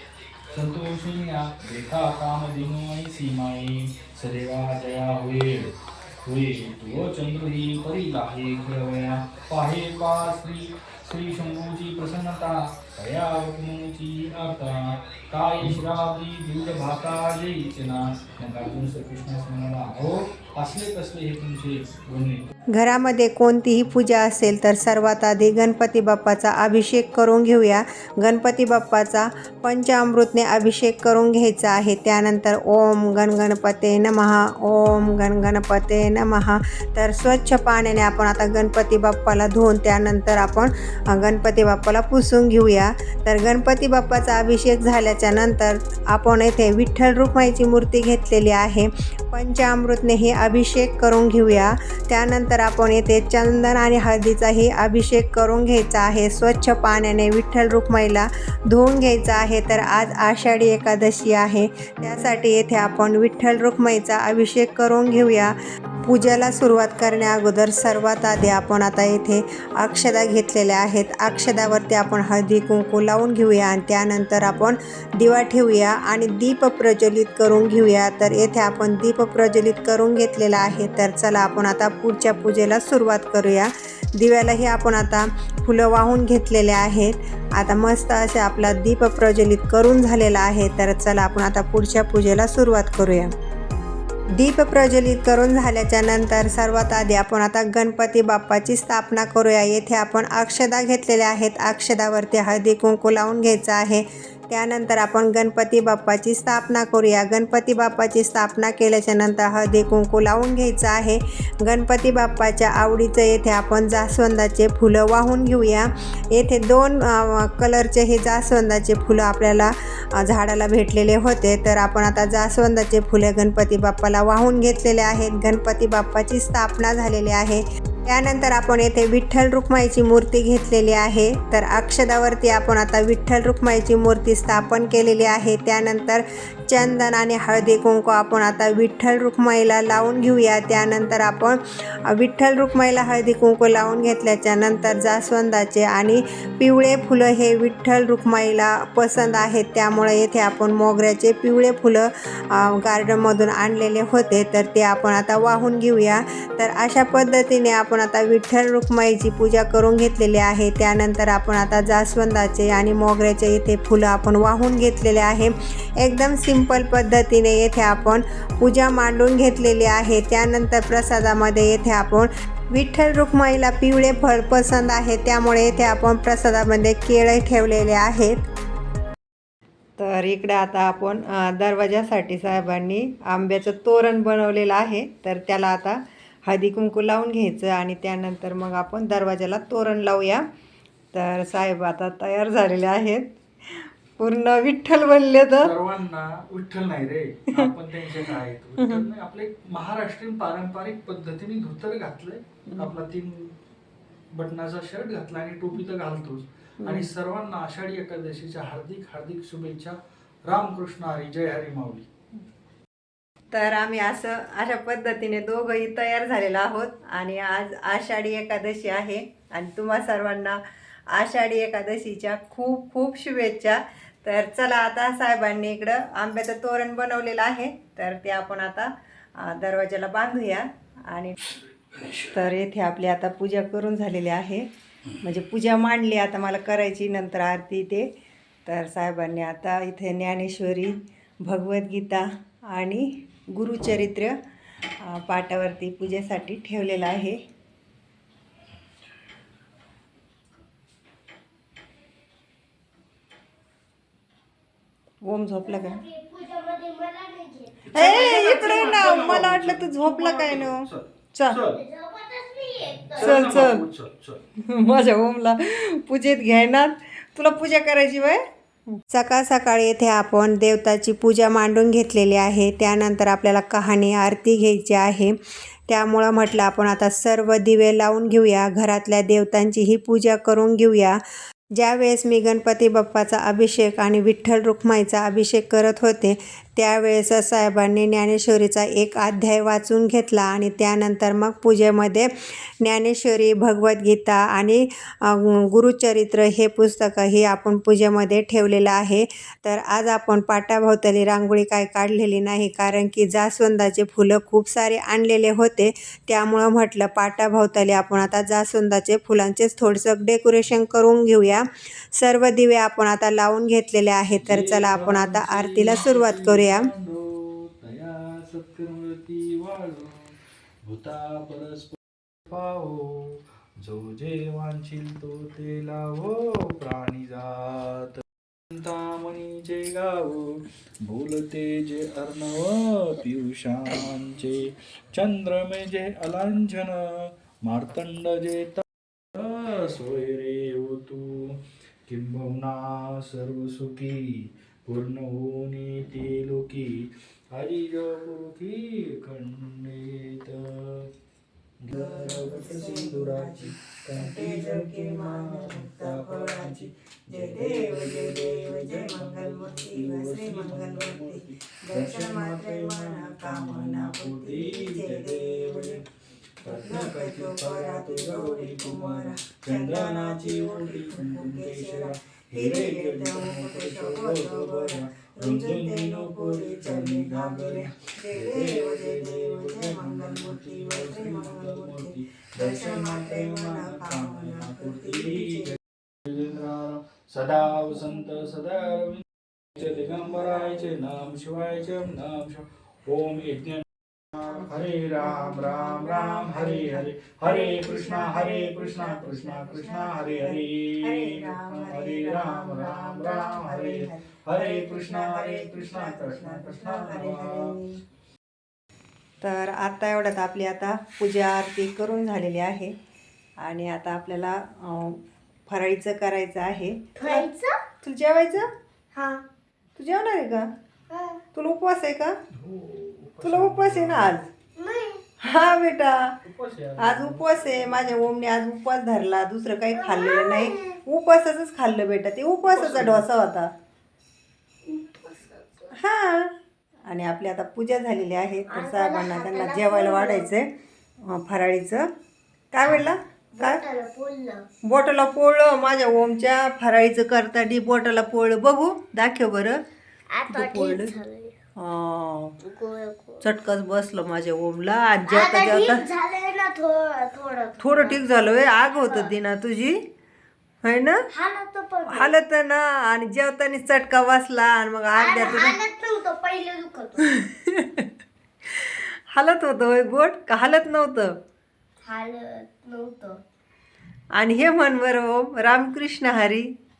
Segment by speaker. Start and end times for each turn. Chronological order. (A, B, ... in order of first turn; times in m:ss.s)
0:00.5-0:22.4 A
0:22.7-1:05.5 B
1:06.0-1:33.3 B
1:34.3-2:58.4 B
3:00.0-3:10.4 B
3:11.1-3:15.7 B
3:15.6-3:23.5 A
3:17.5-3:19.0 B
3:24.3-3:32.1 A
3:26.8-3:27.1 B
3:33.5-3:40.6 B
3:41.1-3:51.4 B
3:52.0-3:52.3 A
3:52.3-3:54.7 B
3:55.2-3:58.1 B
3:58.6-4:04.4 B
4:05.0-4:07.4 B
4:15.2-4:16.0 B
4:15.6-4:19.5 C
4:17.8-4:21.8 A
4:17.9-4:21.6 B
4:21.6-4:23.4 C
4:23.1-4:24.4 A
4:23.2-4:23.8 B
4:24.6-4:28.4 B
4:29.1-4:35.4 B
4:35.9-4:41.2 B
4:41.7-4:52.3 B
4:52.8-5:16.9 B
5:14.4-5:20.3 A
5:20.8-5:22.0 A
5:22.5-5:38.8 A
5:39.3-5:51.1 A
5:51.8-6:06.0 A
5:51.9-6:06.0 B
6:06.6-6:25.8 B
6:06.6-6:47.8 A
6:34.4-6:48.0 B
6:49.4-6:52.9 B
6:53.6-6:57.5 B
6:57.2-6:57.8 C
6:58.0-6:58.7 B
6:59.1-6:59.4 C
7:00.0-7:00.7 B
7:01.1-7:01.4 C
7:01.5-7:02.4 B
7:02.5-7:04.4 A
7:03.4-7:04.5 B
7:04.8-7:05.2 C
7:05.4-7:06.3 B
7:06.4-7:08.3 A
7:07.0-7:13.7 B
7:09.9-7:11.0 C
7:12.7-7:13.2 A
7:14.8-7:15.9 C
7:15.9-7:16.5 B
7:17.1-7:20.7 B
7:18.7-7:20.5 C
7:21.2-7:22.1 B
7:22.7-7:23.8 B
7:22.8-7:24.7 C
7:24.9-7:29.8 B
7:30.3-7:31.6 C
7:30.5-7:31.1 B
7:31.8-7:32.6 B
7:32.6-7:33.5 C
7:33.4-7:36.1 B
7:35.3-7:39.3 C
7:37.8-7:40.0 B
7:40.8-7:41.2 B
7:41.3-7:42.4 C
7:42.1-7:45.8 B
7:45.2-7:47.4 C
7:47.3-7:48.0 B
7:48.8-7:51.3 B
7:52.0-7:53.4 C
7:54.3-7:56.7 B